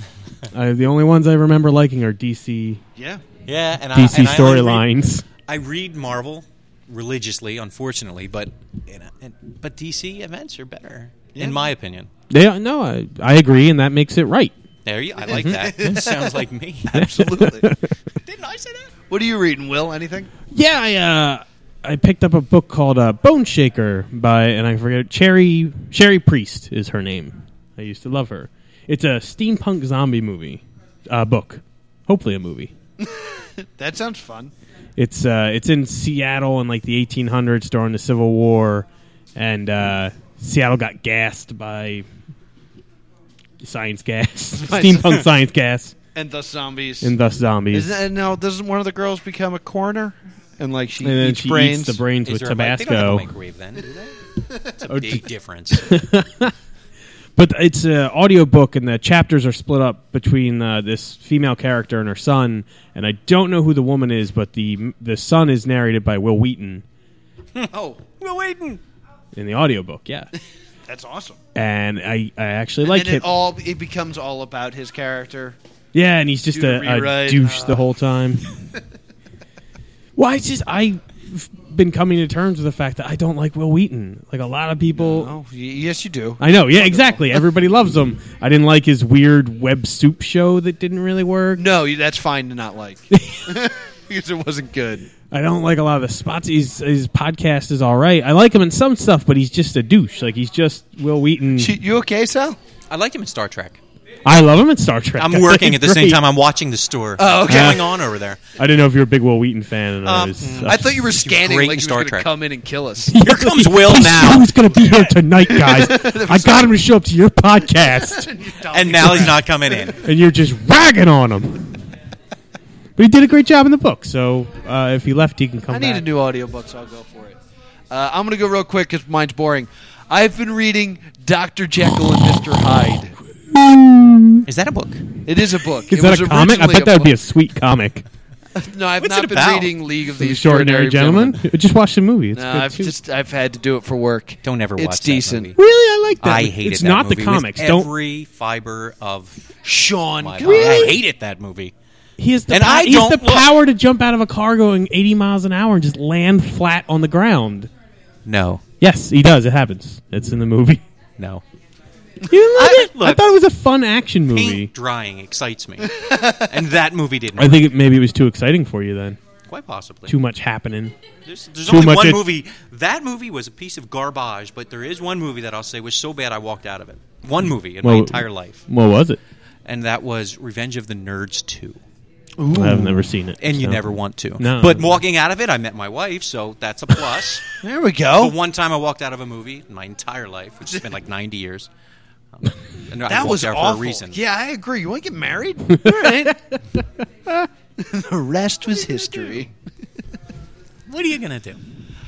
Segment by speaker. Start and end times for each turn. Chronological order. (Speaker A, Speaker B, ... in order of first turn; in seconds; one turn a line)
Speaker A: 0.5-2.8
Speaker B: 3.0-3.2
Speaker C: 3.5-4.9
Speaker A: 3.9-5.2
Speaker C: 5.5-12.1
Speaker B: 11.3-11.7
Speaker A: 12.3-14.5
Speaker C: 14.8-17.1
Speaker B: 15.3-17.7
Speaker A: 17.0-18.0
Speaker C: 18.2-18.9
Speaker B: 19.1-20.3
Speaker A: 20.5-32.7
Speaker B: 33.0-34.5
Speaker A: 35.0-42.1
Speaker A: 43.6-46.0
Speaker B: 44.5-45.3
Speaker B: 46.1-47.1
Speaker A: 47.0-47.9
Speaker B: 47.7-52.0
Speaker A: 51.0-53.3
Speaker C: 52.2-56.0
Speaker B: 54.4-54.9
Speaker A: 54.9-55.2
Speaker A: 55.8-56.5
Speaker A: 57.4-66.8
Speaker C: 67.5-68.8
Speaker B: 67.7-68.0
Speaker A: 69.3-70.3
Speaker B: 70.9-71.4
Speaker A: 71.5-73.3
Speaker B: 72.8-75.6
Speaker A: 75.9-78.5
Speaker B: 76.5-77.8
Speaker A: 80.2-85.3
Speaker B: 85.0-87.4
Speaker A: 86.4-91.7
Speaker B: 91.6-95.1
Speaker A: 93.1-93.5
Speaker A: 95.3-101.8
Speaker B: 101.6-102.6
Speaker C: 102.9-103.8
Speaker A: 104.2-106.2
Speaker C: 105.2-108.4
Speaker B: 107.2-108.0
Speaker A: 107.5-107.8
Speaker A: 108.6-111.0
Speaker B: 110.1-113.1
Speaker C: 110.2-112.3
Speaker C: 113.1-114.5
Speaker A: 113.1-118.3
Speaker B: 114.8-116.8
Speaker B: 117.8-119.8
Speaker C: 118.7-120.0
Speaker A: 120.0-121.7
Speaker A: 123.0-126.0
Speaker B: 125.7-127.4
Speaker B: 127.9-133.2
Speaker A: 133.5-134.4
Speaker C: 134.5-135.1
Speaker B: 135.2-137.2
Speaker A: 135.9-138.1
Speaker B: 138.5-141.4
Speaker C: 139.0-139.8
Speaker A: 140.2-142.9
Speaker B: 142.3-145.5
Speaker C: 144.4-145.6
Speaker A: 145.6-147.9
Speaker C: 146.2-149.5
Speaker B: 149.6-151.0
Speaker C: 150.2-151.7
Speaker A: 150.4-151.0
Speaker A: 152.2-157.7
Speaker C: 152.5-153.5
Speaker C: 158.2-158.6
Speaker A: 158.8-160.8
Speaker A: 162.2-164.7
Speaker C: 162.5-163.2
Speaker C: 164.3-167.7
Speaker B: 166.0-166.4
Speaker A: 167.4-169.2
Speaker C: 169.5-170.1
Speaker A: 170.1-171.0
Speaker C: 171.3-178.6
Speaker A: 171.7-172.2
Speaker A: 177.8-179.2
Speaker C: 179.7-181.8
Speaker B: 182.4-183.1
Speaker A: 182.5-185.0
Speaker C: 183.4-187.5
Speaker B: 187.6-188.4
Speaker C: 188.2-191.7
Speaker C: 192.3-194.2
Speaker B: 193.1-196.4
Speaker A: 195.7-196.3
Speaker B: 197.8-199.5
Speaker C: 200.9-201.6